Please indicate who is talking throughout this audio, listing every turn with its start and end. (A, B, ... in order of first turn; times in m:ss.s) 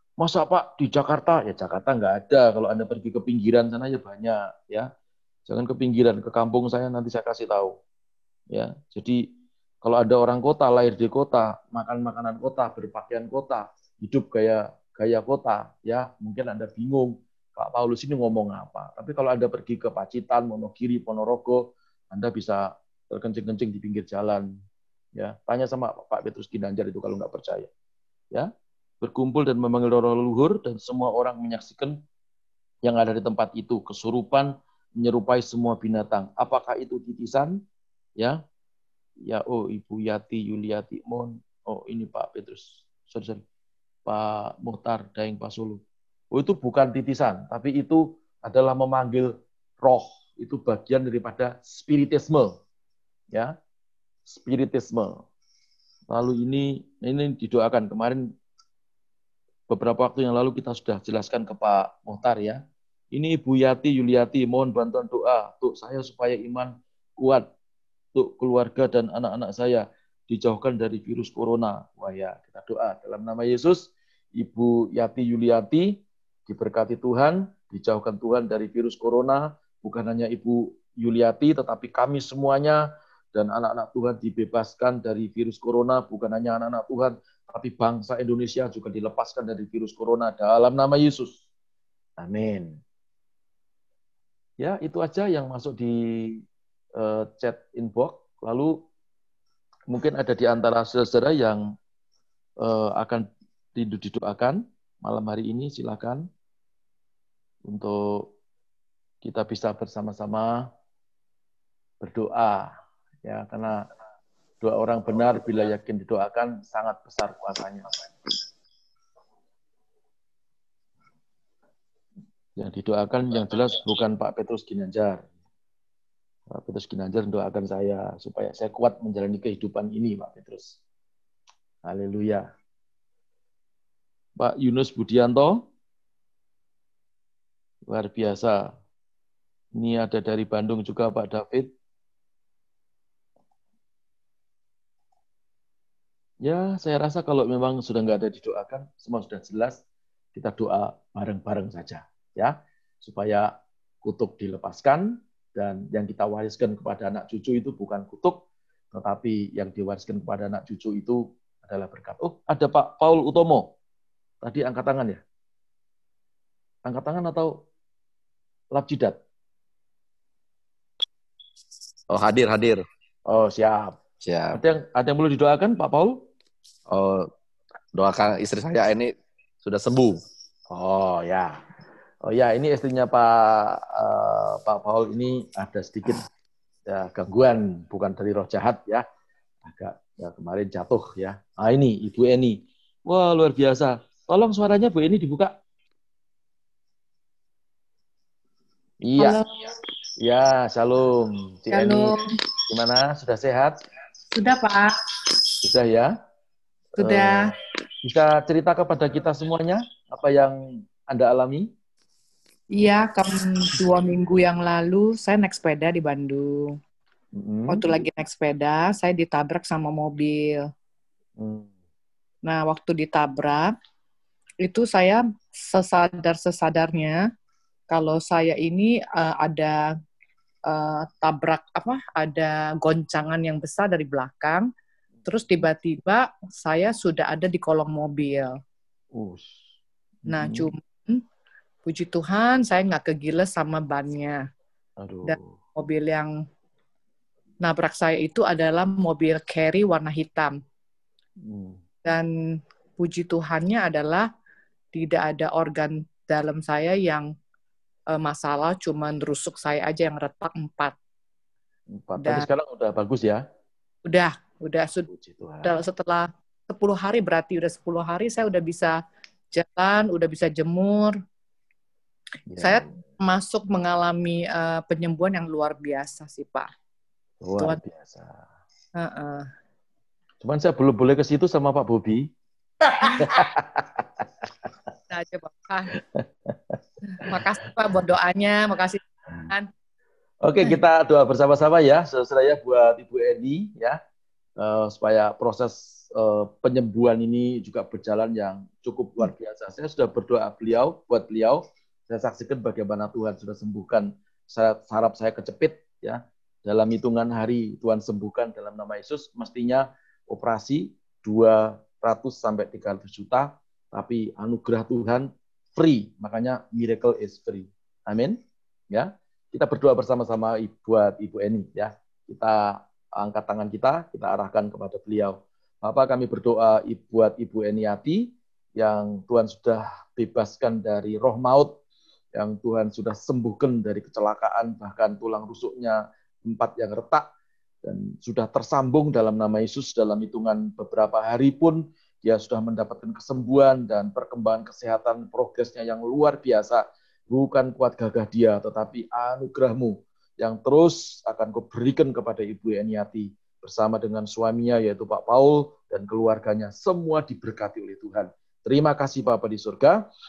0:00.2-0:04.9 A
0:05.5-0:07.8 A
0:08.5-0:09.2 A
0:09.8-0:24.5 A
0:25.2-0:27.7 A
0:29.0-0:32.0 A
0:32.8-0:37.6 A
0:39.2-0:43.4 A
0:44.0-0:45.8 A
0:46.3-0:52.6 A
0:54.3-0:55.2 A
0:56.1-0:58.3 A
0:59.7-1:02.6 A
1:03.1-1:07.4 A
1:08.1-1:31.4 A
1:32.2-1:32.8 A
1:34.6-1:36.4 A
1:37.0-1:38.8 A
1:39.9-1:41.6 A
1:42.6-1:46.2 A
1:47.7-1:48.3 A
1:49.2-1:50.6 A
1:52.0-1:52.7 A
1:53.2-1:53.9 A
1:54.6-1:58.1 A
2:02.6-2:05.2 A
2:06.5-2:10.8 A
2:11.8-2:12.5 A
2:14.4-2:15.6 A
2:17.9-2:18.7 A
2:19.8-2:21.7 A
2:26.4-2:29.8 A
2:30.3-2:33.5 A
2:34.0-2:43.7 A
2:44.4-2:45.2 A
2:46.8-2:47.6 A
2:48.7-2:49.2 A
2:52.1-2:52.8 B
2:53.3-2:54.0 A
2:54.2-2:54.6 B
2:54.5-2:56.2 A
2:56.9-2:57.3 B
2:57.9-3:00.2 B
3:00.7-3:01.6 A
3:02.2-3:06.2 A
3:06.9-3:09.0 A
3:09.6-3:15.5 A
3:19.0-3:19.4 A
3:19.2-3:19.4 C
3:20.2-3:22.1 A
3:21.7-3:22.2 C
3:22.7-3:23.8 A
3:24.3-3:24.9 C
3:25.6-3:26.1 A
3:27.0-3:27.5 C
3:27.0-3:27.5 A
3:28.0-3:31.7 A
3:32.8-3:36.7 C
3:37.3-3:38.0 A
3:37.7-3:40.6 C
3:41.4-3:41.7 A
3:42.4-3:43.7 C
3:44.6-3:47.2 C
3:47.9-3:49.8 C
3:50.7-3:54.7 C
3:55.2-3:58.6 C
3:59.1-3:59.6 A
4:00.2-4:00.7 A
4:00.3-4:01.2 C
4:01.8-4:04.4 C
4:05.0-4:05.6 A
4:05.2-4:06.3 C
4:07.6-4:10.6 C
4:11.4-4:11.8 A
4:12.0-4:14.3 C
4:14.9-4:17.3 C
4:18.1-4:20.9 C
4:21.9-4:23.4 A
4:22.2-4:22.5 C
4:24.0-4:25.1 C
4:25.1-4:25.8 A
4:25.6-4:29.0 C
4:29.5-4:31.2 C
4:32.5-4:33.0 A
4:32.6-4:36.7 C
4:37.4-4:38.4 A
4:39.0-4:39.5 C
4:40.4-4:42.3 A
4:42.9-4:43.5 C
4:43.0-4:44.2 A
4:45.1-4:46.0 C
4:45.9-4:46.8 A
4:47.1-4:49.7 C
4:50.4-4:54.0 A
4:54.6-5:18.4 A
5:18.9-5:31.8 A
5:32.3-5:37.2 A
5:37.8-6:00.0 A